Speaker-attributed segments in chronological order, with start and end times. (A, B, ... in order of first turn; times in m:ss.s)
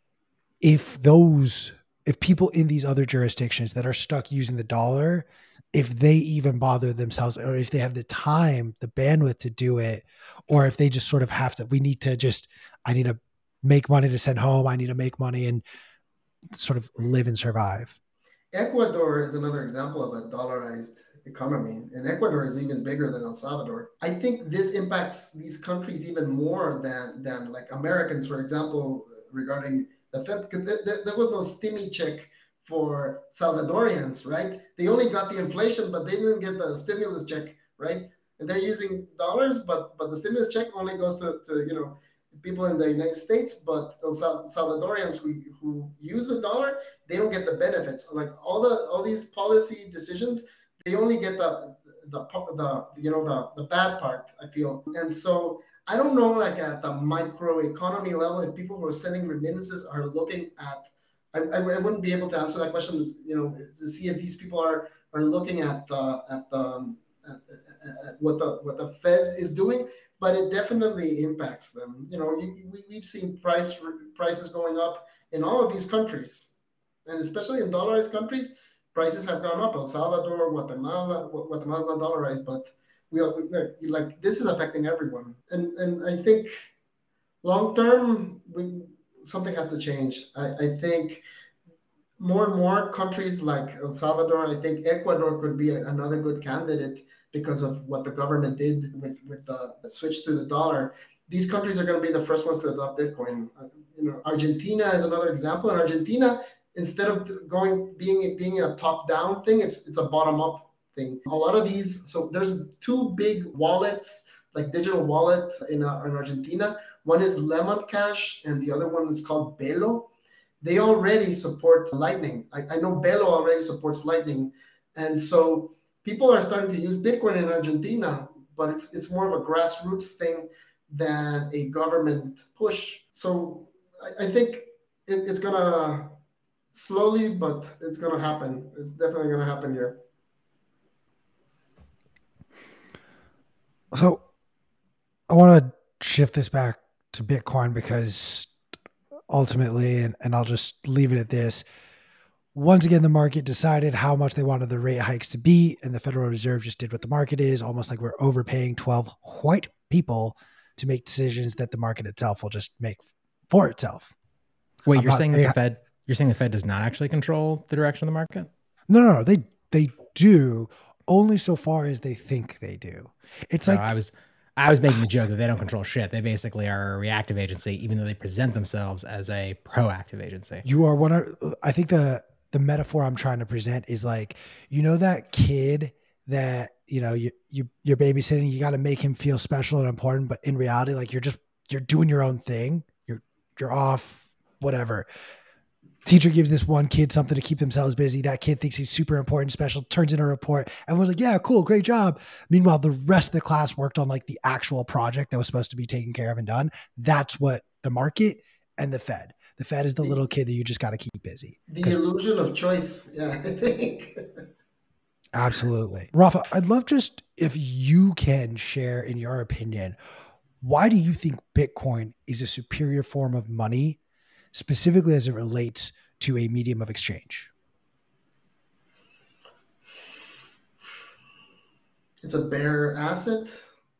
0:00.6-0:15.6 A
0:16.5-0:17.9 A
0:18.5-1:26.7 B
1:27.4-1:31.2 B
1:32.2-2:00.1 B
2:00.6-2:16.2 B
2:16.7-2:20.0 B
2:23.9-2:24.2 A
2:25.3-2:28.5 A
2:29.3-2:31.6 A
2:32.5-2:44.1 A
2:44.9-2:48.5 C
2:44.9-2:45.5 A
2:48.9-2:53.9 A
2:53.6-3:00.6 C
3:00.6-3:15.0 A
3:16.0-3:32.0 A
3:31.7-3:34.4 B
3:35.3-3:40.0 A
3:40.6-3:44.0 A
3:44.5-3:47.5 A
3:52.2-3:53.6 B